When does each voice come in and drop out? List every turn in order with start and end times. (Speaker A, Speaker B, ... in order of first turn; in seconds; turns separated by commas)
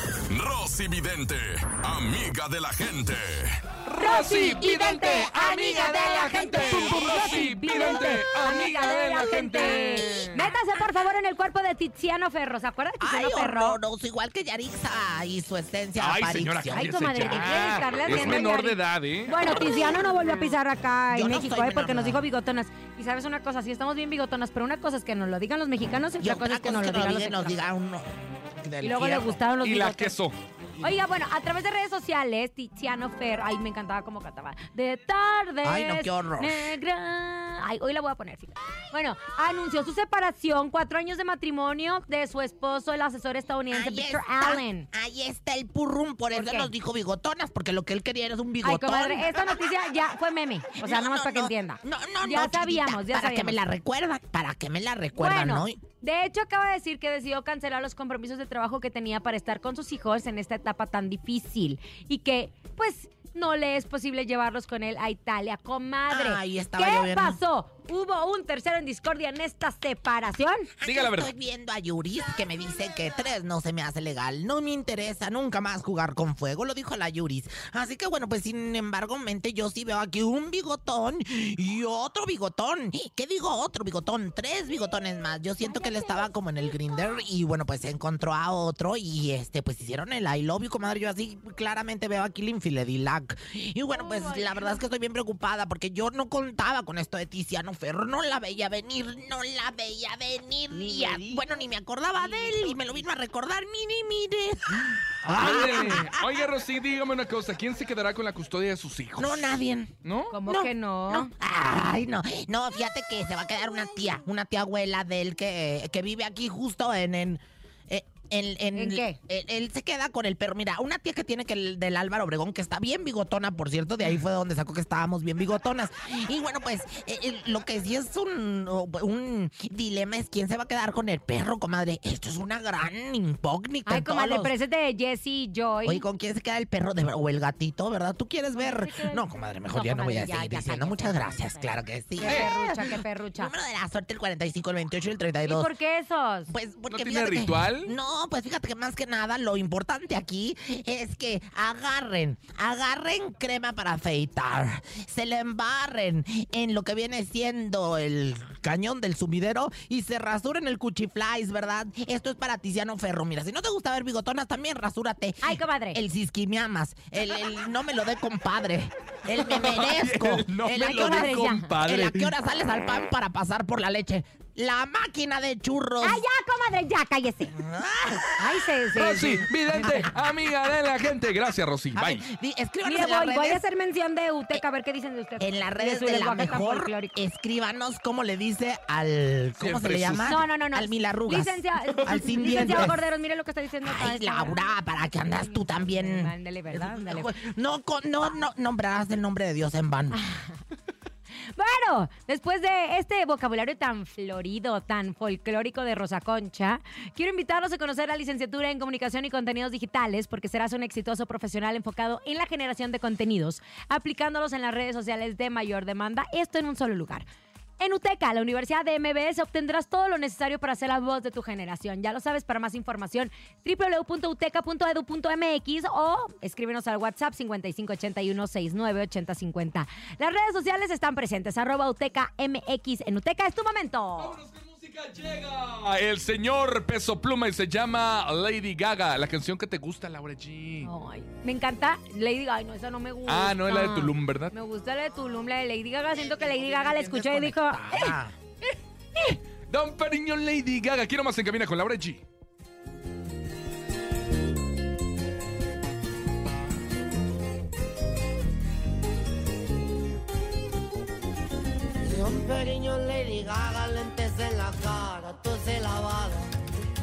Speaker A: 0.3-3.6, Speaker B: 3.9-10.5, Speaker C: 4.0-13.8, Speaker D: 4.6-7.3, Speaker D: 13.0-17.8, Speaker B: 16.0-19.3, Speaker C: 16.7-27.6, Speaker D: 21.1-22.2, Speaker D: 26.2-29.4, Speaker C: 28.8-30.1, Speaker B: 29.6-30.4, Speaker C: 30.8-44.9, Speaker D: 35.6-36.7, Speaker D: 43.7-49.6, Speaker C: 46.3-46.7, Speaker C: 48.6-53.6, Speaker D: 50.8-55.8, Speaker C: 55.1-70.7, Speaker D: 66.1-67.4, Speaker D: 70.8-106.5, Speaker B: 70.8-71.3, Speaker C: 94.1-94.8, Speaker C: 100.9-101.4, Speaker C: 102.2-102.8, Speaker B: 105.2-109.5, Speaker D: 109.2-109.9, Speaker B: 110.0-110.3, Speaker C: 110.3-111.3, Speaker D: 110.5-134.5, Speaker C: 118.8-119.2, Speaker C: 133.9-136.0, Speaker D: 135.8-145.7, Speaker C: 138.6-143.5, Speaker C: 145.4-146.5, Speaker D: 146.5-176.2, Speaker B: 146.9-147.9, Speaker C: 165.4-166.0, Speaker B: 169.5-172.3, Speaker C: 170.8-171.7, Speaker C: 176.0-177.5, Speaker D: 177.5-178.6, Speaker C: 178.4-179.5, Speaker B: 179.0-182.2, Speaker D: 179.8-180.1, Speaker D: 181.9-183.6, Speaker C: 182.8-187.2, Speaker D: 185.4-193.0, Speaker B: 189.6-190.4, Speaker C: 190.2-197.3, Speaker B: 192.2-192.9, Speaker D: 193.8-200.2, Speaker C: 200.1-200.6, Speaker C: 201.6-217.3, Speaker C: 217.8-234.4, Speaker B: 234.2-240.9, Speaker C: 240.8-248.2, Speaker B: 243.3-244.5, Speaker D: 246.1-248.4, Speaker B: 249.7-252.2, Speaker E: 262.0-266.5